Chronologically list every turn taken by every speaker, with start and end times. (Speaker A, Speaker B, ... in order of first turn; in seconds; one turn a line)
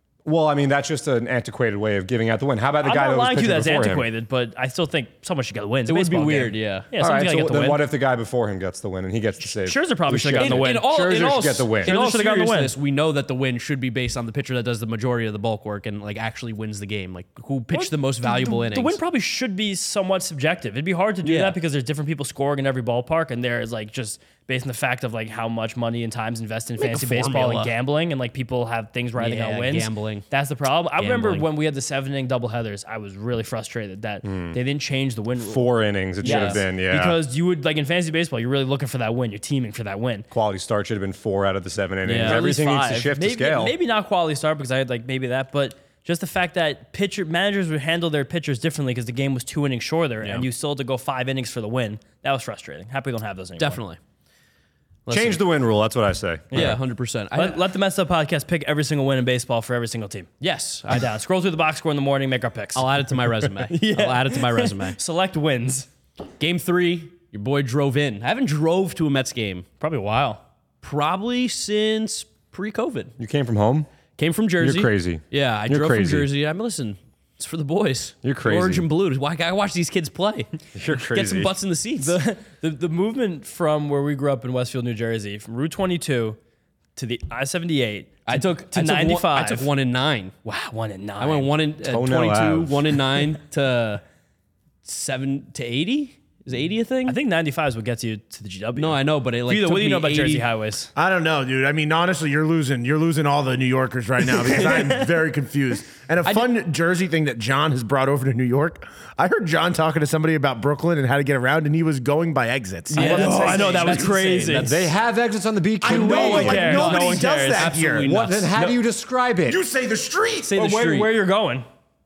Speaker A: 0.2-4.1
Speaker B: 2.8-7.8
Speaker C: 5.9-6.9
Speaker A: 7.0-11.9
Speaker B: 9.5-10.9
Speaker C: 10.4-19.0
Speaker B: 11.8-12.7
Speaker B: 17.7-35.6
Speaker C: 21.2-21.6
Speaker C: 26.8-27.7
Speaker C: 29.2-30.2
Speaker C: 31.0-31.5
Speaker A: 34.2-34.6
Speaker A: 35.4-37.2
Speaker B: 36.2-40.2
Speaker C: 36.2-36.6
Speaker A: 40.3-43.7
Speaker C: 42.0-42.4
Speaker B: 42.1-53.8
Speaker C: 50.2-50.5
Speaker C: 53.6-54.0
Speaker C: 55.0-55.4
Speaker A: 55.1-56.7
Speaker B: 56.5-56.8
Speaker C: 56.5-57.6
Speaker B: 57.3-60.3
Speaker C: 60.4-61.0
Speaker B: 60.9-62.9
Speaker C: 62.7-65.0
Speaker B: 63.6-65.9
Speaker C: 66.4-69.7
Speaker B: 69.8-70.4
Speaker C: 70.8-73.1
Speaker A: 73.2-73.9
Speaker C: 74.2-82.2
Speaker A: 74.6-76.3
Speaker A: 78.2-78.8
Speaker A: 80.7-81.5
Speaker B: 82.0-86.4
Speaker B: 87.0-89.7
Speaker C: 88.3-90.3
Speaker B: 90.4-91.5
Speaker C: 91.2-94.0
Speaker A: 91.8-92.9
Speaker C: 94.8-97.2
Speaker B: 97.1-100.9
Speaker C: 98.8-100.4
Speaker D: 100.9-114.2
Speaker B: 104.3-105.0
Speaker C: 106.2-106.5
Speaker C: 112.9-114.9
Speaker B: 112.9-114.8
Speaker A: 114.5-116.8
Speaker D: 115.8-118.1
Speaker B: 115.9-117.7
Speaker C: 115.9-118.5
Speaker A: 118.0-119.6
Speaker D: 119.5-120.5
Speaker C: 120.4-121.1
Speaker B: 120.5-121.7